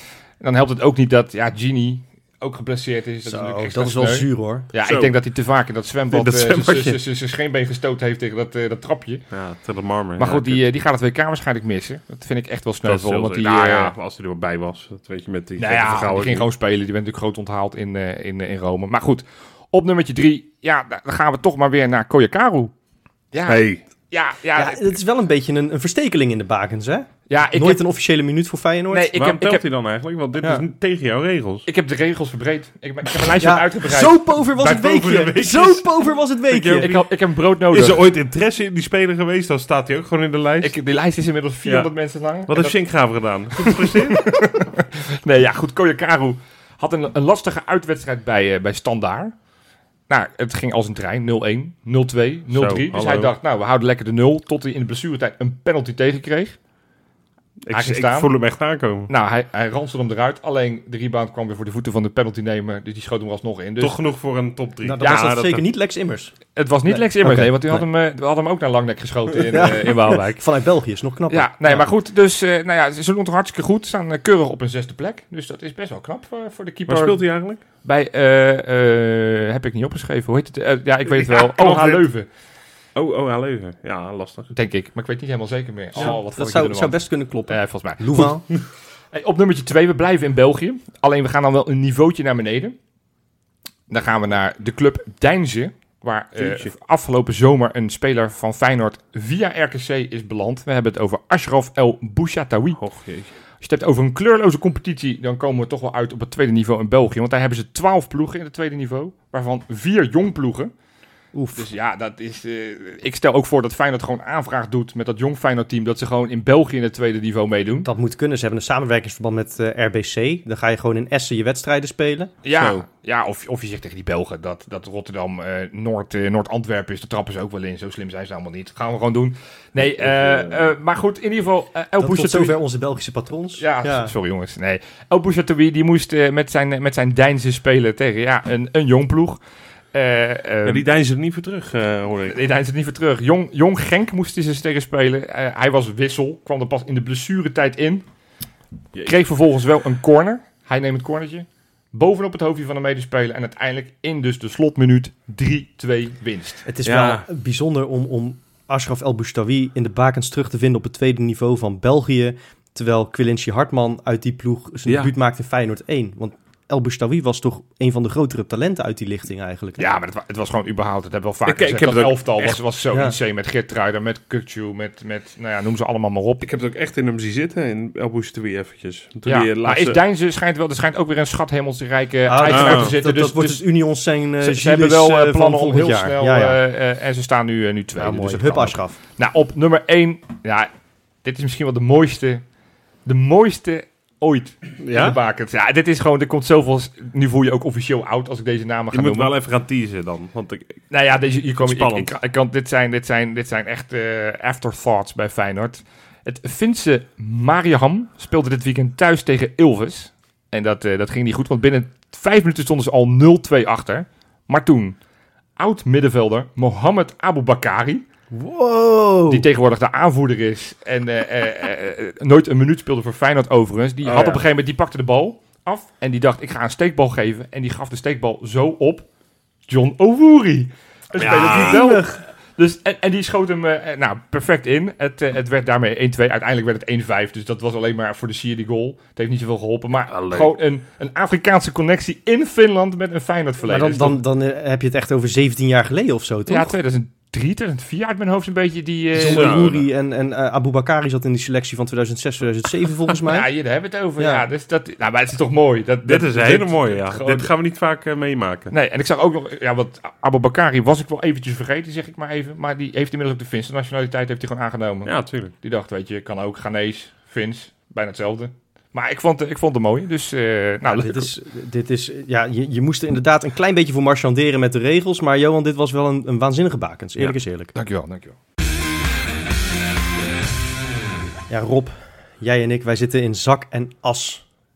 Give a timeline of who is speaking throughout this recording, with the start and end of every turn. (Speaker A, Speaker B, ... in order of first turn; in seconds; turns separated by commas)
Speaker A: 0.4-9.2, Speaker B: 3.3-4.7, Speaker C: 4.8-5.2, Speaker C: 6.1-7.0, Speaker C: 9.3-10.6, Speaker A: 10.2-13.9, Speaker C: 12.8-16.5, Speaker A: 15.6-22.7, Speaker A: 23.3-24.9, Speaker C: 23.5-23.8, Speaker B: 24.6-29.1, Speaker A: 27.3-27.8, Speaker A: 28.9-29.6, Speaker C: 29.1-31.7, Speaker A: 31.7-35.7, Speaker B: 33.4-36.9, Speaker C: 34.9-35.9, Speaker C: 36.5-37.1, Speaker A: 36.8-38.0, Speaker C: 37.7-40.7, Speaker A: 40.6-42.8, Speaker C: 41.6-41.9, Speaker C: 42.5-44.3, Speaker A: 43.5-49.3, Speaker A: 50.1-56.6, Speaker C: 52.5-53.3, Speaker C: 57.6-59.1, Speaker A: 57.7-58.3, Speaker A: 59.1-64.0, Speaker C: 63.8-65.6, Speaker B: 64.8-66.3, Speaker A: 65.0-65.3, Speaker A: 66.6-70.4, Speaker B: 66.9-67.8, Speaker B: 69.5-71.9, Speaker A: 71.3-77.2, Speaker C: 76.9-77.6, Speaker A: 77.8-82.3, Speaker C: 81.1-82.1, Speaker C: 83.0-84.5, Speaker A: 84.5-87.0, Speaker B: 86.0-88.4, Speaker A: 87.5-88.3, Speaker A: 89.1-92.8, Speaker A: 93.9-102.8, Speaker C: 96.4-96.7, Speaker C: 102.8-103.3, Speaker A: 103.6-110.7, Speaker B: 111.3-111.7, Speaker A: 111.5-117.9, Speaker B: 117.8-122.3, Speaker A: 122.4-132.6, Speaker C: 122.5-122.8, Speaker C: 129.8-130.6, Speaker B: 132.0-134.1, Speaker A: 133.6-139.4, Speaker A: 139.9-140.8, Speaker C: 140.7-142.4, Speaker A: 142.3-148.1, Speaker A: 149.0-156.6, Speaker B: 156.7-169.9, Speaker C: 156.8-157.3, Speaker C: 164.9-165.1, Speaker A: 169.8-176.4, Speaker C: 171.5-172.6, Speaker C: 176.4-180.0, Speaker A: 179.3-183.6, Speaker B: 182.3-186.6, Speaker C: 182.5-183.0, Speaker A: 184.4-190.7, Speaker B: 188.0-189.0, Speaker A: 191.2-192.4, Speaker A: 193.1-199.3, Speaker C: 194.8-195.2, Speaker C: 198.9-200.8, Speaker A: 200.9-215.0, Speaker C: 201.6-202.2, Speaker A: 215.6-218.1, Speaker B: 218.3-219.5, Speaker A: 219.3-229.1, Speaker C: 224.1-224.4, Speaker A: 229.7-244.2, Speaker C: 231.2-232.0, Speaker B: 231.2-232.1, Speaker C: 240.1-240.6, Speaker B: 243.7-246.7, Speaker A: 246.5-249.7, Speaker B: 249.1-253.5, Speaker C: 249.3-249.8, Speaker A: 253.2-257.5, Speaker B: 254.2-254.4, Speaker C: 256.0-258.7, Speaker A: 258.7-271.3, Speaker C: 265.1-265.5, Speaker B: 270.9-277.7, Speaker A: 277.2-278.4, Speaker B: 281.5-284.4